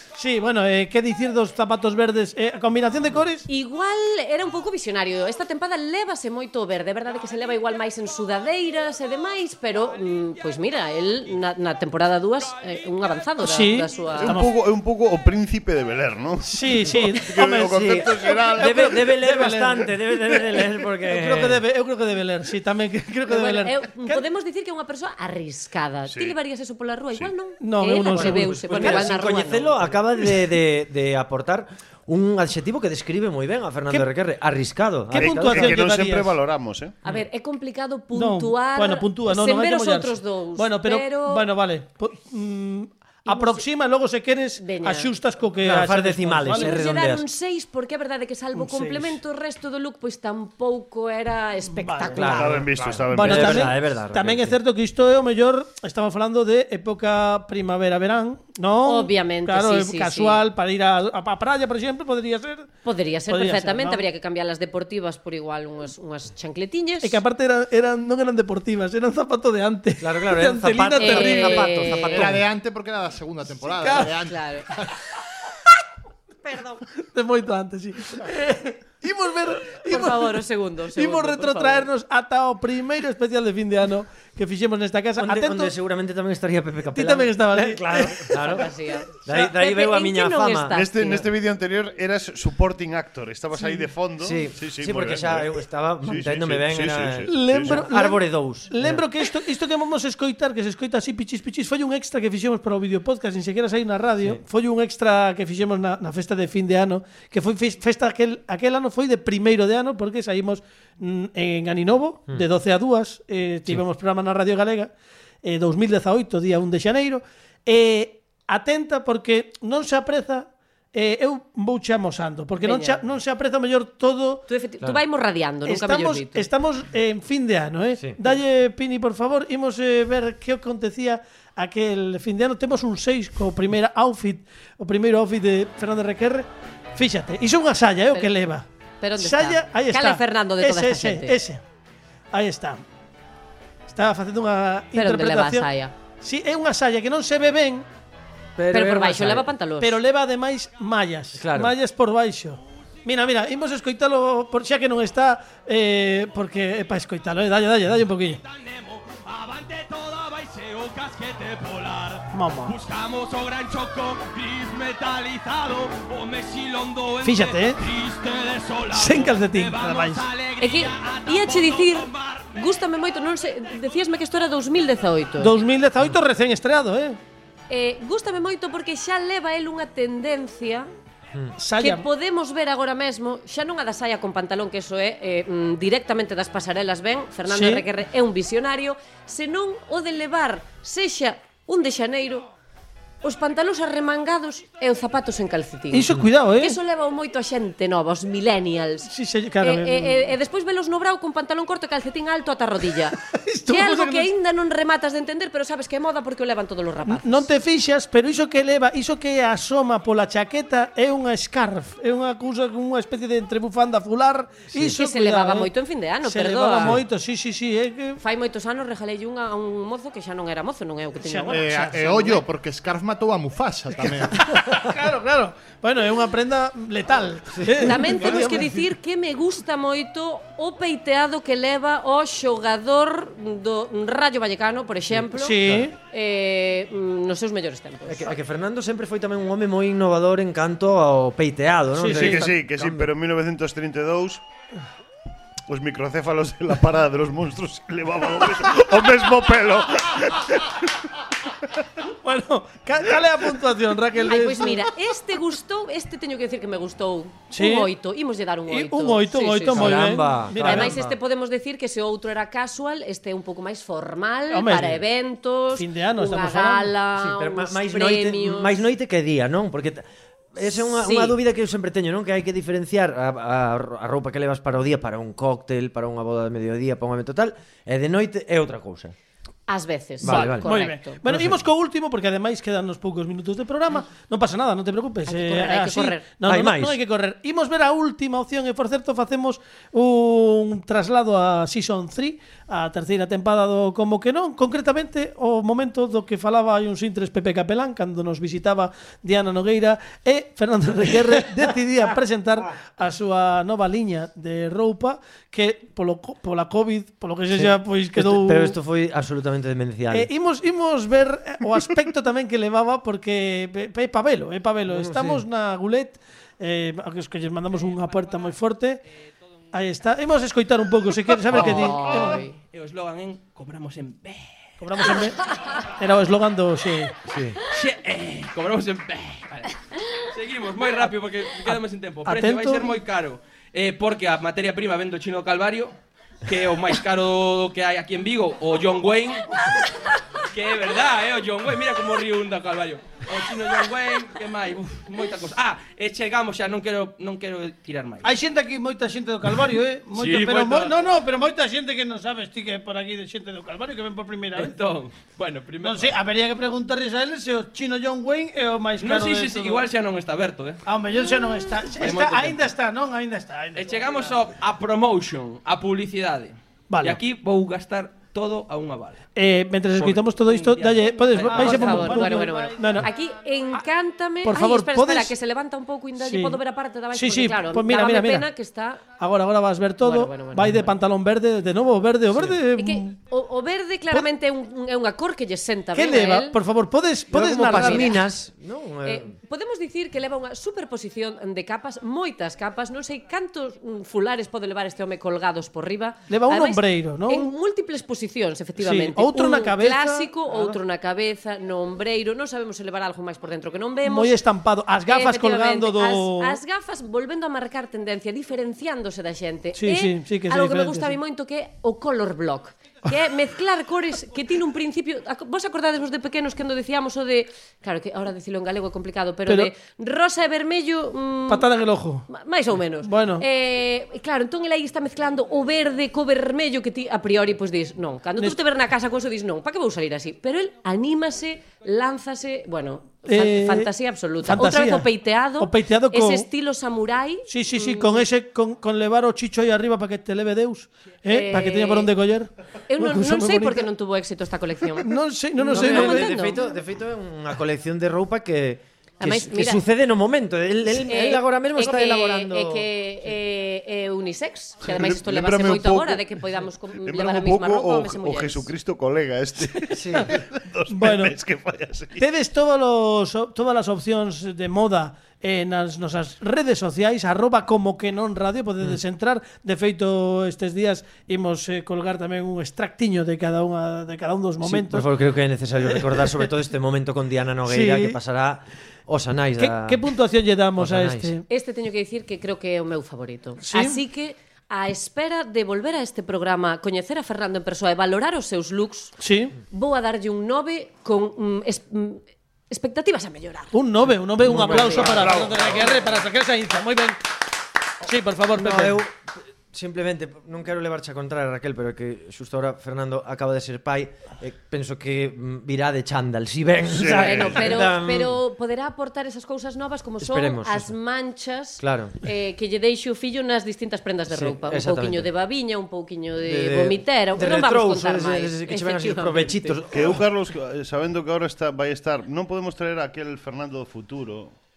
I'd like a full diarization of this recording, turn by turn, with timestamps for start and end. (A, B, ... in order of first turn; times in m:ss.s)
0:00.2-0:03.5 A
0:03.5-0:14.4 B
0:13.4-0:14.5 A
0:14.2-0:19.0 C
0:16.4-0:20.4 A
0:17.7-0:21.6 D
0:21.0-0:24.2 A
0:23.3-0:29.8 B
0:26.1-0:26.4 C
0:27.6-0:29.1 A
0:28.1-0:35.8 D
0:35.1-0:36.4 A
0:35.2-0:37.0 C
0:37.0-0:41.5 B
0:38.1-0:46.8 A
0:43.3-0:43.6 B
0:44.6-0:45.1 B
0:45.6-0:47.2 D
0:46.5-0:52.6 B
0:48.5-0:49.2 A
0:51.7-0:52.4 A
0:52.1-0:54.6 D
0:52.3-0:53.8 C
0:53.1-1:02.7 A
0:58.8-1:00.4 B
1:02.8-1:07.2 B
1:03.3-1:04.0 A
1:07.0-1:11.9 A
1:10.0-1:12.4 D
1:11.0-1:12.4 B
1:12.1-1:14.9 E
1:13.8-1:14.1 A
1:14.0-1:14.7 B
1:16.5-1:20.4 A
1:19.9-1:21.9 B
1:21.0-1:25.8 A
1:25.2-1:30.8 D
1:26.9-1:28.6 A
1:28.4-1:31.3 B
1:30.7-1:37.9 C
1:34.2-1:39.0 D
1:37.3-1:54.9 A
1:55.4-2:04.4 A
2:02.6-2:03.0 B
2:04.5-2:06.5 B
2:05.6-2:21.6 A
2:08.0-2:08.3 D
2:19.0-2:21.4 B
2:22.3-2:22.8 A
2:23.9-2:25.7 A
2:25.0-2:25.9 B
2:26.2-2:27.9 A
2:28.6-2:29.5 D
2:28.7-2:30.0 B
2:29.8-2:38.4 A
2:31.4-2:31.7 D
2:38.4-2:52.5 F
2:42.3-2:42.8 A
2:47.2-2:47.8 A
2:48.9-2:50.3 A
2:50.6-2:55.6 B
2:55.4-2:57.2 A
2:57.7-3:00.9 B
3:01.6-3:02.1 A
3:01.8-3:12.5 B
3:07.5-3:07.8 A
3:13.2-3:19.1 B
3:15.9-3:16.8 A
3:19.1-3:20.3 A
3:19.6-3:23.2 B
3:23.2-3:24.3 A
3:23.7-3:27.5 B
3:27.1-3:35.7 A
3:34.7-3:35.0 D
3:34.9-3:37.0 B
3:36.2-3:38.2 A
3:38.2-3:41.7 B
3:41.2-3:42.4 A
3:41.5-3:44.6 E
3:44.3-3:48.8 A
3:47.5-3:47.9 D
3:47.8-3:58.4 B
3:55.3-3:56.0 A
3:58.1-4:03.1 D
4:02.0-4:02.5 A
4:02.1-4:04.4 C
4:05.7-4:10.8 C
4:12.1-4:14.9 A
4:14.2-4:28.8 B
4:17.5-4:17.9 A
4:18.7-4:21.0 A
4:19.7-4:21.2 D
4:24.5-4:24.9 A
4:25.7-4:26.9 A
4:27.2-4:39.1 D
4:31.0-4:31.4 B
4:39.7-4:41.2 B
4:40.2-4:40.7 D
4:40.3-5:08.8 A
4:41.3-4:41.6 D
4:45.3-4:46.2 B
4:46.5-4:47.0 D
5:07.5-5:10.3 D
5:10.1-5:19.0 A
5:14.9-5:15.4 D
5:19.7-5:22.4 A
5:21.5-5:22.6 B
5:21.5-5:24.6 F
5:24.8-5:25.4 A
5:25.9-5:27.2 A
5:27.3-5:27.6 D
5:27.6-5:29.8 F
5:30.3-5:35.9 F
5:32.2-5:32.9 A
5:36.4-5:39.6 F
5:40.5-5:48.3 F
5:48.2-5:54.8 A
5:50.1-5:51.0 F
5:54.6-5:56.1 F
5:55.8-5:59.9 A
5:59.0-6:00.8 F
6:00.8-6:04.4 A
6:01.9-6:02.7 F
6:03.7-6:09.2 F
6:06.9-6:07.2 A
6:09.4-6:13.1 A
6:10.0-6:12.6 F
6:11.4-6:19.0 B
6:14.4-6:15.3 A
6:16.2-6:16.6 A
6:17.1-6:18.5 A
6:19.2-6:23.2 A
6:20.0-6:20.9 B
6:22.8-6:26.6 B
6:25.9-6:28.2 A
6:27.3-6:29.3 D
6:27.7-6:28.2 B
6:29.0-6:44.4 B
6:36.3-6:37.5 A
6:38.8-6:40.8 A
6:44.0-6:46.6 A
6:45.1-7:01.7 B
6:49.8-6:51.2 A
7:01.5-7:02.3 A
7:02.3-7:18.2 B
7:03.0-7:03.4 A
7:13.3-7:13.9 A
7:14.4-7:15.1 A
7:15.6-7:16.5 A
7:17.5-7:23.9 A
7:21.3-7:22.1 B
7:22.9-7:26.6 B
7:25.0-7:26.4 A
7:25.7-7:32.9 D
7:29.2-7:29.8 B
7:30.9-7:38.7 B
7:34.8-7:36.4 C
7:37.0-7:42.2 C
7:40.0-7:40.3 D
7:40.9-7:41.4 A
7:42.2-7:55.1 A
7:54.6-8:00.0 D
7:55.9-7:56.3 A
7:57.7-7:58.2 A
7:59.6-8:01.4 A
8:00.8-8:01.4 D
8:01.5-8:09.2 B
8:03.6-8:04.0 A
8:09.2-8:09.6 A
8:09.7-8:13.7 B
8:13.7-8:17.2 A
8:14.4-8:15.8 D
8:15.1-8:16.0 C
8:18.0-8:19.0 A
8:18.5-8:28.4 D
8:26.9-8:27.6 C
8:27.0-8:39.8 B
8:30.2-8:30.9 D
8:31.8-8:32.2 D
8:34.3-8:35.3 D
8:36.4-8:40.2 D
8:39.9-8:44.5 C